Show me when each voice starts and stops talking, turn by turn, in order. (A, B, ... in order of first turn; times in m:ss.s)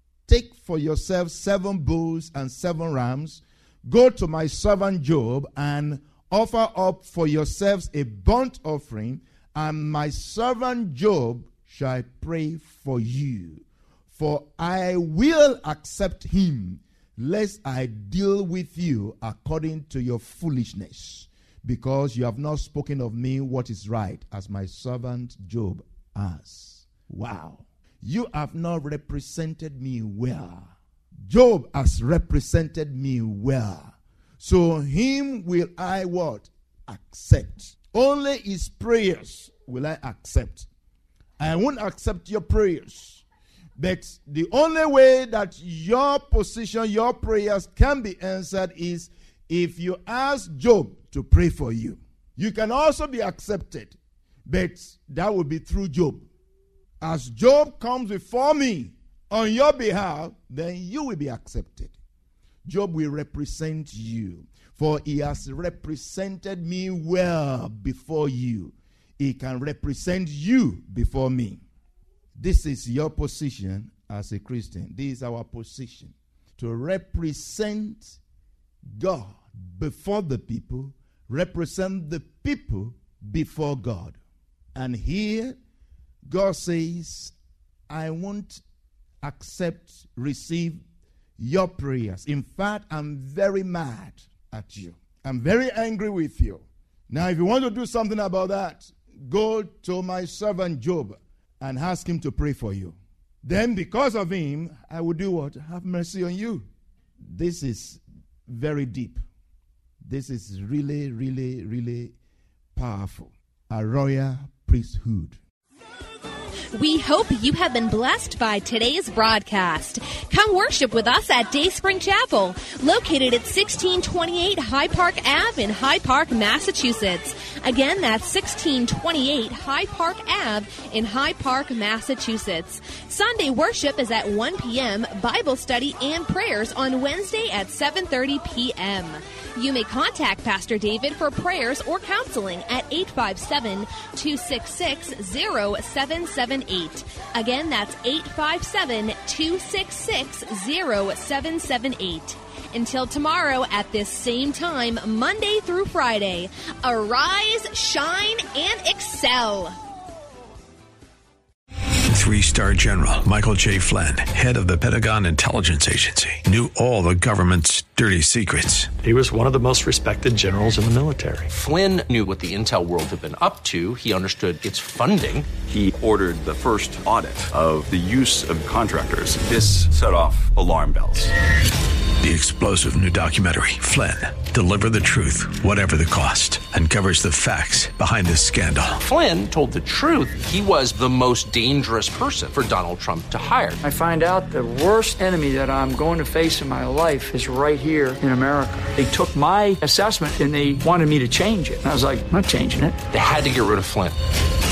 0:00.3-0:30.7 A
0:31.3-0:40.7 A
0:41.4-0:43.2 A
0:43.8-0:54.0 A
0:54.5-0:56.3 A
0:57.0-1:01.9 A
1:02.6-1:11.6 A
1:12.4-1:18.2 A
1:19.0-1:24.2 A
1:24.8-1:25.6 A
1:26.2-1:27.4 A
1:27.9-1:28.6 A
1:29.2-1:30.8 A
1:31.4-1:46.6 A
1:47.3-1:49.2 A
1:50.0-1:52.1 A
1:52.8-1:55.4 A
1:56.8-2:39.7 B
2:42.1-2:49.1 C
2:49.0-2:51.5 D
2:51.5-2:55.5 E
2:55.7-3:01.3 F
3:02.2-3:09.0 C
3:09.0-3:13.8 E
3:13.8-3:23.0 G
3:23.1-3:24.1 E